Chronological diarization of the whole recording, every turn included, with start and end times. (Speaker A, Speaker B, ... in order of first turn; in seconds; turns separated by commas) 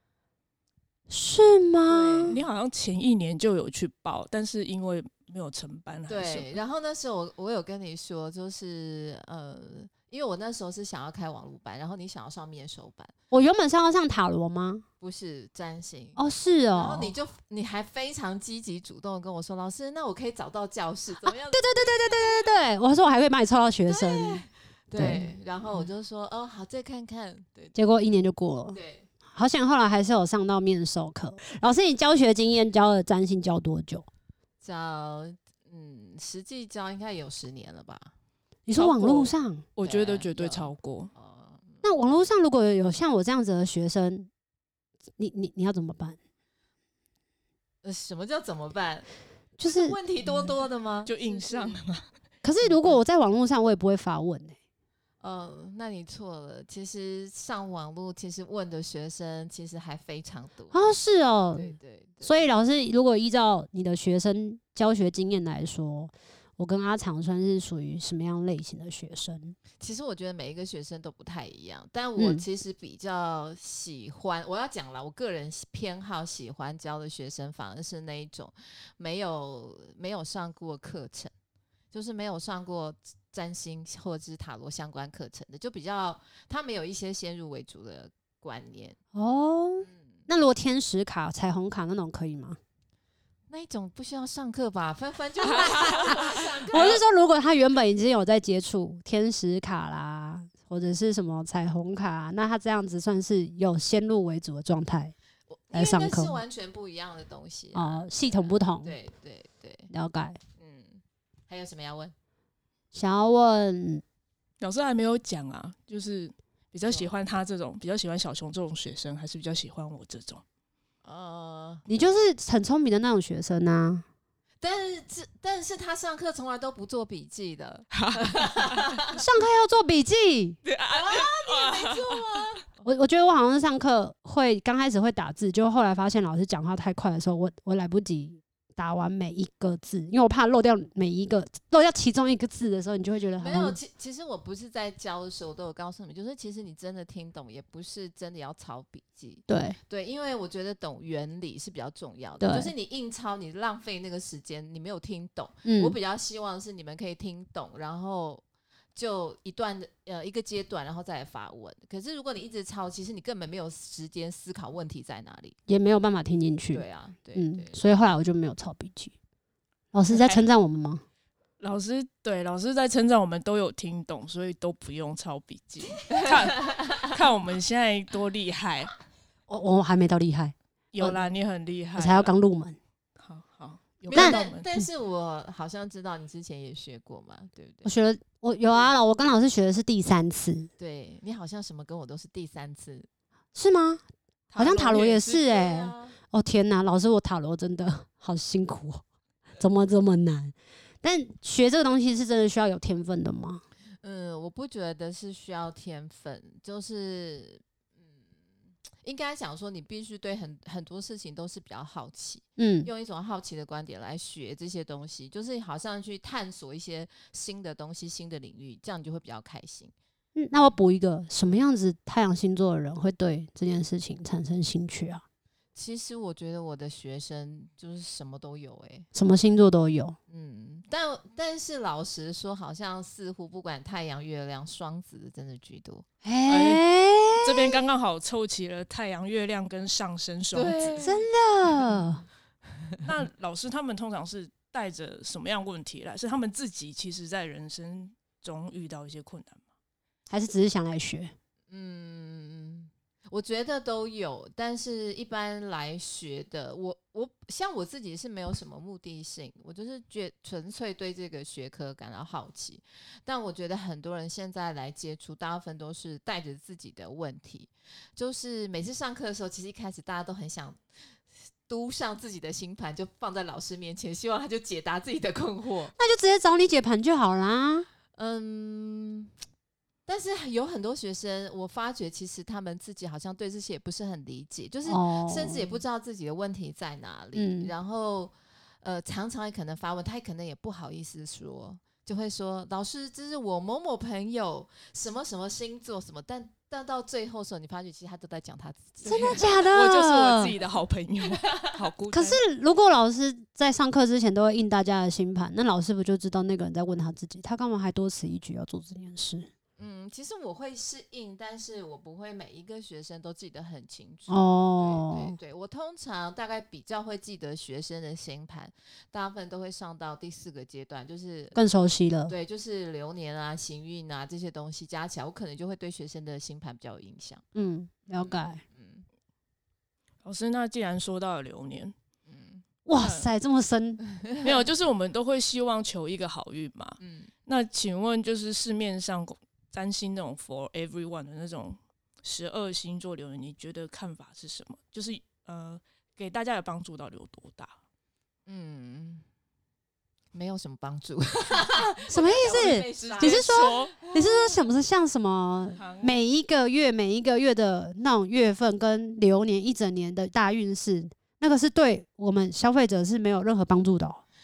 Speaker A: 1.1-2.4, Speaker B: 1.9-2.4, Speaker C: 2.3-6.5, Speaker B: 6.1-13.1, Speaker A: 13.3-14.8, Speaker B: 15.0-16.2, Speaker A: 16.2-17.1, Speaker B: 16.7-22.4, Speaker A: 21.2-24.4, Speaker B: 23.9-27.8, Speaker A: 25.0-25.3, Speaker A: 27.7-28.8, Speaker B: 28.7-29.1, Speaker A: 29.3-34.1, Speaker B: 34.6-38.1, Speaker A: 38.7-39.7, Speaker C: 38.8-41.1, Speaker B: 39.8-41.8, Speaker A: 41.8-44.3, Speaker A: 45.2-46.2, Speaker B: 47.8-49.1, Speaker A: 49.6-50.0, Speaker B: 49.7-51.8, Speaker C: 51.1-52.0, Speaker A: 52.4-54.6, Speaker B: 52.6-53.0, Speaker B: 55.2-60.9, Speaker A: 60.7-69.6, Speaker B: 61.6-62.5, Speaker B: 69.8-81.3, Speaker A: 72.2-72.4, Speaker B: 81.9-89.0, Speaker A: 89.1-92.6, Speaker B: 93.5-97.0, Speaker A: 95.6-105.1, Speaker C: 95.7-96.1, Speaker C: 96.7-97.0, Speaker B: 105.5-109.9, Speaker A: 105.7-106.4, Speaker A: 107.7-109.0, Speaker A: 109.9-110.4, Speaker B: 110.6-112.1, Speaker A: 112.9-114.0, Speaker C: 114.6-120.4, Speaker B: 116.8-117.1, Speaker B: 121.0-121.8, Speaker A: 121.9-124.0, Speaker B: 124.6-129.2, Speaker C: 127.9-128.9, Speaker A: 129.1-130.6, Speaker C: 130.7-132.4, Speaker B: 130.9-132.7, Speaker A: 132.8-143.8, Speaker B: 143.4-158.4, Speaker A: 149.5-149.8, Speaker A: 152.4-152.7, Speaker A: 155.7-155.9, Speaker B: 158.9-165.6, Speaker A: 165.7-169.1, Speaker B: 166.7-167.8, Speaker A: 169.9-171.0, Speaker C: 170.1-170.4, Speaker C: 171.6-178.9, Speaker B: 176.1-177.1, Speaker A: 179.5-181.2, Speaker C: 180.9-182.3, Speaker A: 182.0-182.8, Speaker C: 183.2-184.7, Speaker B: 184.1-187.9, Speaker A: 184.1-184.5, Speaker A: 187.8-190.7, Speaker B: 190.8-193.1, Speaker A: 193.6-194.0, Speaker C: 194.5-195.2, Speaker A: 194.6-199.0, Speaker B: 194.8-196.2, Speaker A: 199.6-203.6, Speaker B: 204.0-207.6, Speaker B: 209.0-219.9, Speaker A: 212.6-212.9, Speaker A: 220.4-225.2, Speaker B: 225.8-229.1, Speaker A: 229.1-230.2, Speaker B: 230.3-236.1, Speaker A: 236.2-237.8, Speaker C: 236.5-236.8, Speaker C: 237.4-241.0, Speaker B: 240.5-241.3, Speaker A: 241.0-242.2, Speaker C: 243.0-249.6, Speaker A: 250.3-251.3, Speaker B: 251.7-270.8, Speaker B: 271.7-275.9, Speaker A: 276.0-277.9, Speaker B: 278.1-279.3, Speaker B: 280.1-299.5, Speaker A: 284.9-285.8, Speaker A: 287.4-287.7, Speaker A: 299.1-300.6, Speaker C: 299.1-302.4, Speaker B: 301.4-301.7, Speaker A: 302.1-309.5, Speaker B: 309.8-321.6, Speaker A: 314.3-315.4, Speaker A: 321.6-322.3, Speaker B: 322.3-327.4, Speaker A: 327.6-328.6, Speaker B: 328.1-329.1, Speaker C: 330.2-331.9, Speaker B: 332.3-332.6, Speaker A: 332.9-334.0, Speaker C: 333.0-333.3, Speaker B: 334.1-334.6, Speaker C: 334.4-347.8, Speaker B: 337.0-337.3, Speaker B: 348.5-349.2, Speaker B: 350.3-354.6, Speaker A: 352.1-364.2, Speaker C: 352.9-353.9, Speaker C: 355.8-356.2